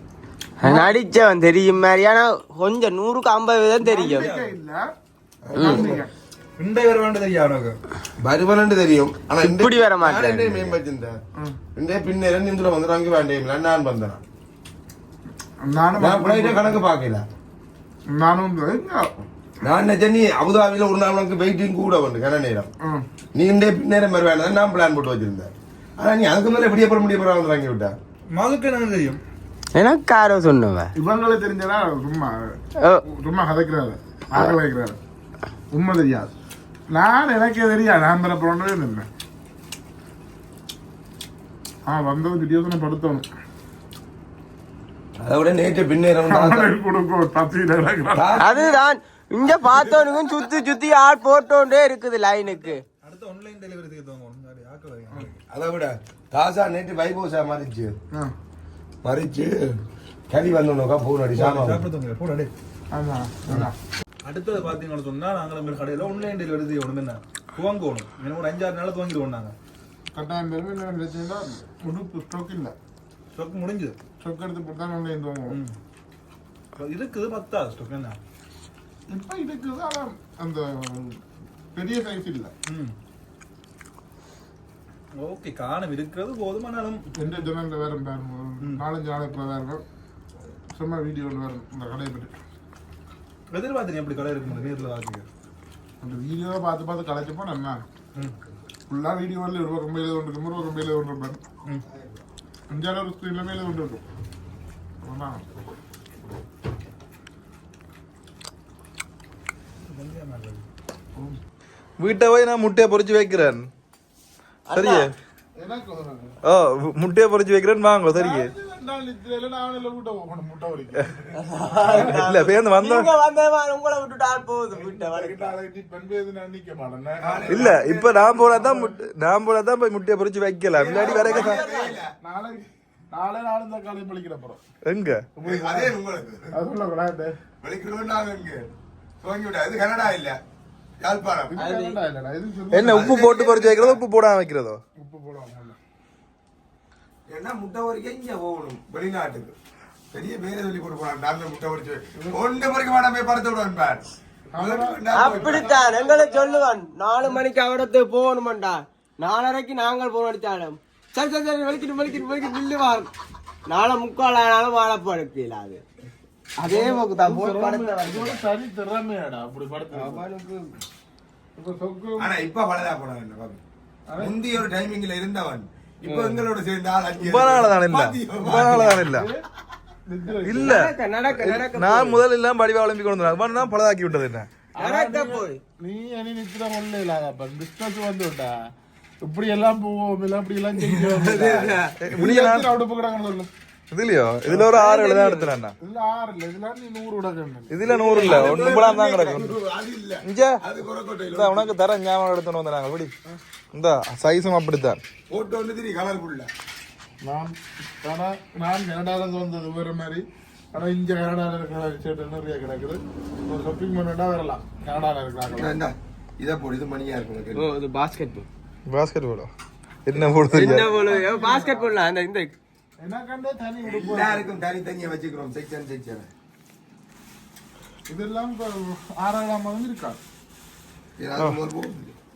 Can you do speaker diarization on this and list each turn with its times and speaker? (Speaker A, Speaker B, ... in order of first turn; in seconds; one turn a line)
Speaker A: 0.6-4.3
Speaker B: 3.8-4.5
Speaker C: 3.9-4.8
Speaker D: 5.5-6.0
Speaker C: 5.6-6.1
Speaker A: 5.6-5.9
Speaker B: 6.6-7.8
Speaker D: 8.2-11.2
Speaker A: 9.4-10.7
Speaker D: 11.8-14.2
Speaker C: 15.6-16.8
Speaker D: 16.0-17.2
Speaker C: 18.1-19.2
Speaker D: 19.6-22.7
Speaker D: 23.4-27.9
Speaker B: 28.3-29.2
Speaker A: 29.7-30.9
Speaker C: 31.0-32.6
Speaker C: 33.1-35.0
Speaker C: 35.7-36.3
Speaker C: 36.9-39.1
Speaker C: 41.9-43.2
Speaker D: 45.2-46.7
Speaker C: 46.3-48.4
Speaker D: 48.1-48.8
Speaker A: 48.4-52.8
Speaker D: 49.5-50.2
Speaker B: 52.4-55.4
Speaker D: 55.5-58.0
Speaker D: 59.0-59.7
Speaker D: 60.3-61.8
Speaker B: 61.3-62.5
Speaker C: 62.9-63.7
Speaker B: 64.2-69.5
Speaker C: 70.1-72.8
Speaker B: 73.3-74.0
Speaker C: 74.2-75.6
Speaker B: 75.5-75.8
Speaker B: 76.8-78.2
Speaker C: 79.1-81.2
Speaker C: 81.8-82.5
Speaker B: 82.7-82.9
Speaker B: 85.2-87.0
Speaker C: 87.2-89.8
Speaker C: 90.7-92.4
Speaker B: 93.5-95.3
Speaker C: 96.0-97.8
Speaker C: 98.9-101.4
Speaker D: 101.9-102.2
Speaker C: 102.7-104.0
Speaker C: 105.0-105.4
Speaker B: 109.9-110.6
Speaker B: 112.0-113.7
Speaker A: 114.7-115.1
Speaker B: 114.7-115.1
Speaker C: 115.6-116.4
Speaker B: 116.5-118.5
Speaker C: 118.2-122.5
Speaker A: 121.4-125.5
Speaker B: 121.8-123.1
Speaker C: 124.7-127.7
Speaker D: 127.2-128.5
Speaker B: 127.5-131.7
Speaker C: 128.5-128.9
Speaker D: 130.8-132.1
Speaker A: 130.9-132.0
Speaker C: 132.2-134.6
Speaker B: 134.8-135.3
Speaker C: 135.4-136.0
Speaker D: 135.4-136.6
Speaker C: 136.5-137.4
Speaker D: 137.6-138.7
Speaker D: 139.2-140.4
Speaker D: 141.0-141.6
Speaker C: 141.5-143.2
Speaker A: 141.6-142.0
Speaker B: 142.7-144.8
Speaker D: 142.8-144.0
Speaker C: 145.0-145.8
Speaker D: 147.3-149.5
Speaker D: 150.1-154.1
Speaker C: 152.2-152.4
Speaker C: 154.5-156.6
Speaker D: 154.6-155.8
Speaker A: 155.1-163.1
Speaker A: 163.7-165.8
Speaker A: 166.6-168.4
Speaker C: 166.7-170.2
Speaker A: 169.9-170.7
Speaker C: 171.6-172.3
Speaker D: 172.2-173.6
Speaker C: 174.1-174.4
Speaker D: 174.2-179.1
Speaker A: 176.0-176.5
Speaker B: 177.2-179.3
Speaker C: 179.0-179.4
Speaker C: 180.1-180.8
Speaker B: 180.4-184.5
Speaker A: 180.5-182.2
Speaker C: 184.8-188.5
Speaker A: 184.8-185.6
Speaker C: 189.2-193.5
Speaker A: 191.0-191.9
Speaker D: 191.1-191.8
Speaker B: 192.0-192.7
Speaker B: 193.9-195.8
Speaker C: 194.5-194.7
Speaker A: 194.7-195.6
Speaker C: 195.8-197.9
Speaker B: 197.7-199.6
Speaker D: 197.9-201.7
Speaker A: 198.2-198.6
Speaker B: 200.2-200.6
Speaker B: 201.3-203.1
Speaker B: 203.7-205.0
Speaker D: 205.3-206.5
Speaker C: 207.2-215.8
Speaker D: 215.5-217.7
Speaker A: 217.6-218.5
Speaker B: 218.9-219.5
Speaker B: 220.1-220.9
Speaker A: 220.5-222.6
Speaker C: 220.5-222.0
Speaker C: 223.0-224.5
Speaker D: 223.8-226.3
Speaker C: 228.1-230.2
Speaker D: 231.2-232.1